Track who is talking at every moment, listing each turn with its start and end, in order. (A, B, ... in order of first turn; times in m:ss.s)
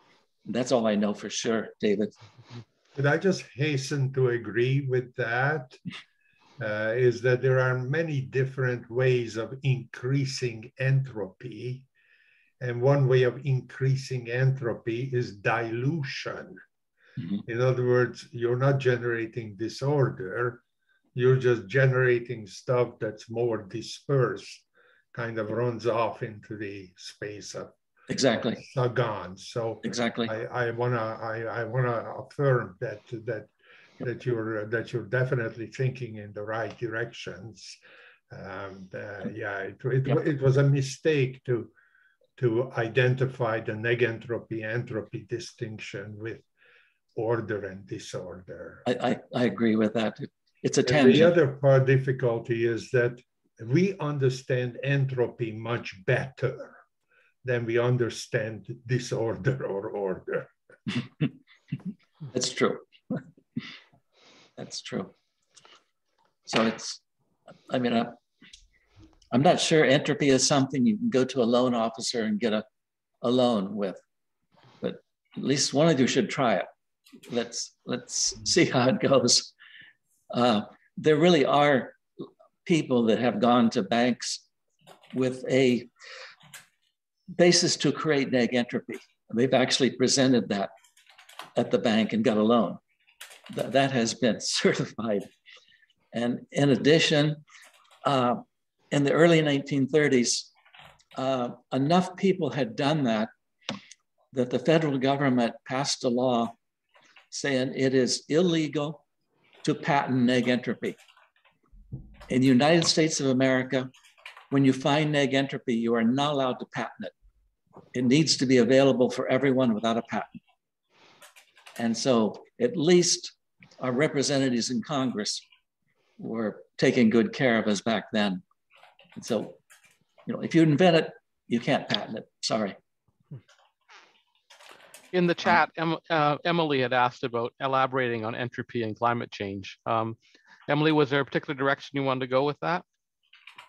0:00.5-0:02.1 A
0:03.0-0:05.8 B
0:06.6-0:11.9 B
0:12.6-0:16.6 B
0:17.5-0:20.6 B
0:21.2-0:27.7 B
0:28.1-0:28.6 A
0:28.7-0:37.8 B
0:29.8-0:30.3 A
0:38.3-0:41.7 B
0:42.4-0:46.4 B
0:47.2-0:48.8 B
0:48.9-0:51.3 A
0:50.9-0:56.8 B
0:57.4-1:00.5 B
1:02.3-1:02.8 A
1:04.6-1:05.1 A
1:06.5-1:07.0 A
1:07.7-1:08.2 A
1:09.3-1:12.6 A
1:13.2-1:14.0 A
1:14.8-1:16.7 A
1:17.3-1:19.5 A
1:20.3-1:24.4 A
1:25.1-1:25.9 A
1:27.3-1:30.7 A
1:31.6-1:32.8 A
1:33.5-1:35.3 A
1:36.1-1:37.4 A
1:38.0-1:40.5 A
1:41.2-1:43.3 A
1:44.3-1:46.5 A
1:47.3-1:49.0 A
1:49.6-1:51.0 A
1:52.3-1:53.9 A
1:54.5-1:57.1 A
1:57.9-2:00.4 A
2:01.8-2:05.4 A
2:06.2-2:08.4 A
2:09.2-2:09.6 A
2:10.3-2:12.8 A
2:15.1-2:20.2 C
2:20.7-2:22.8 C